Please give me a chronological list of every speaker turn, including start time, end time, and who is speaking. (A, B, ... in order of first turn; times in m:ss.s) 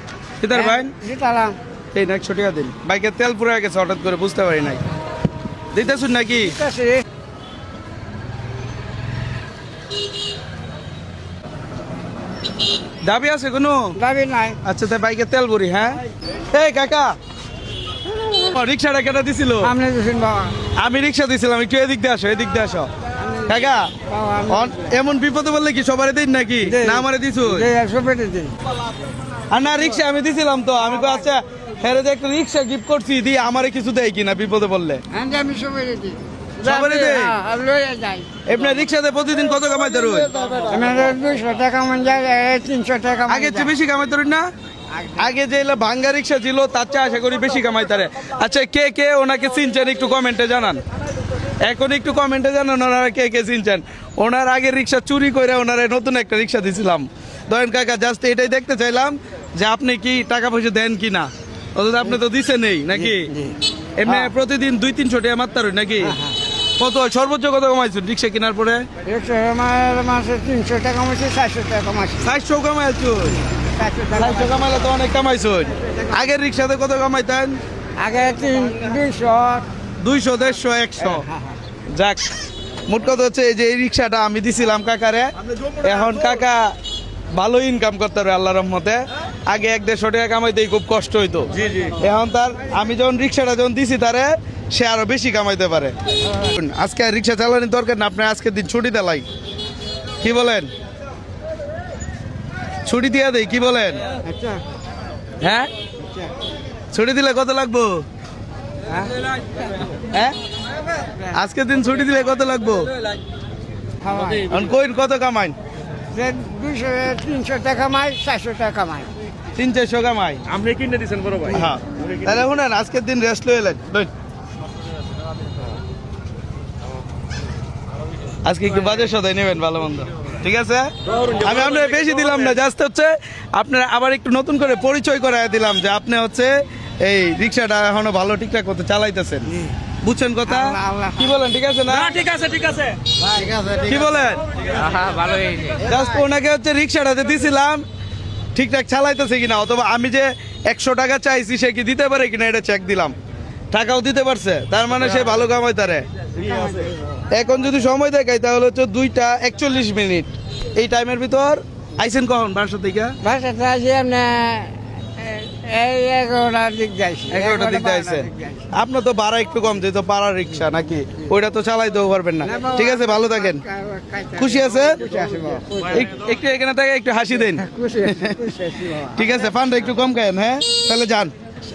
0:00.4-0:00.9 A
0:00.5-0:01.6 B
0:01.9-0:04.8 A
0:05.7-0:06.6 A
0:06.4-0:07.0 B
0:13.1-0:14.0 A
0:14.0-0:14.6 B
0:14.6-0:16.0 A
0:16.5-0:17.2 A
0:18.3-0:19.7 A
0:19.6-0:20.6 B
0:20.8-0:22.9 A
0:23.2-0:24.9 B
0:23.5-0:23.9 A
0:24.5-0:27.7 A
0:26.6-0:28.5 B
0:29.5-0:35.0 A
0:35.1-0:38.3 B
0:36.6-0:37.3 A
0:38.5-0:40.3 A
0:40.7-0:43.7 B
0:43.3-0:44.4 A
0:44.9-0:45.3 B
0:45.2-0:50.8 A
0:51.6-1:03.3 A
1:02.9-1:04.3 B
1:04.0-1:06.2 A
1:06.0-1:06.4 B
1:06.8-1:08.9 A
1:09.0-1:12.3 B
1:12.2-1:13.4 A
1:13.7-1:14.8 B
1:14.2-1:17.6 A
1:18.0-1:19.7 B
1:20.0-1:21.2 A
1:21.0-1:21.6 B
1:21.9-1:22.3 A
1:22.9-1:26.7 A
1:27.3-1:39.3 A
1:40.2-1:40.7 A
1:42.8-1:44.0 A
1:44.2-1:44.6 B
1:45.4-1:45.7 A
1:46.0-1:46.3 B
1:46.9-1:48.0 A
1:48.9-1:49.2 B
1:50.1-1:50.4 A
1:51.3-1:52.9 A
1:54.0-1:54.5 B
1:54.4-1:55.6 A
1:56.1-1:59.1 B
1:59.6-2:00.5 A
2:00.5-2:01.5 C
2:01.5-2:04.1 A
2:08.4-2:22.3 A
2:20.5-2:21.4 B
2:22.2-2:23.0 C
2:23.2-2:23.6 B
2:23.6-2:24.4 A
2:24.9-2:25.6 C
2:25.0-2:25.6 B
2:25.8-2:27.8 A
2:28.6-2:33.2 A
2:33.7-2:36.0 A
2:36.4-2:37.0 B
2:37.3-2:43.2 A
2:43.2-2:48.7 B
2:47.3-2:53.6 A
2:52.4-2:56.1 B
2:54.4-2:55.0 A
2:55.9-2:58.4 A
2:57.5-2:59.4 B
2:59.0-3:01.3 A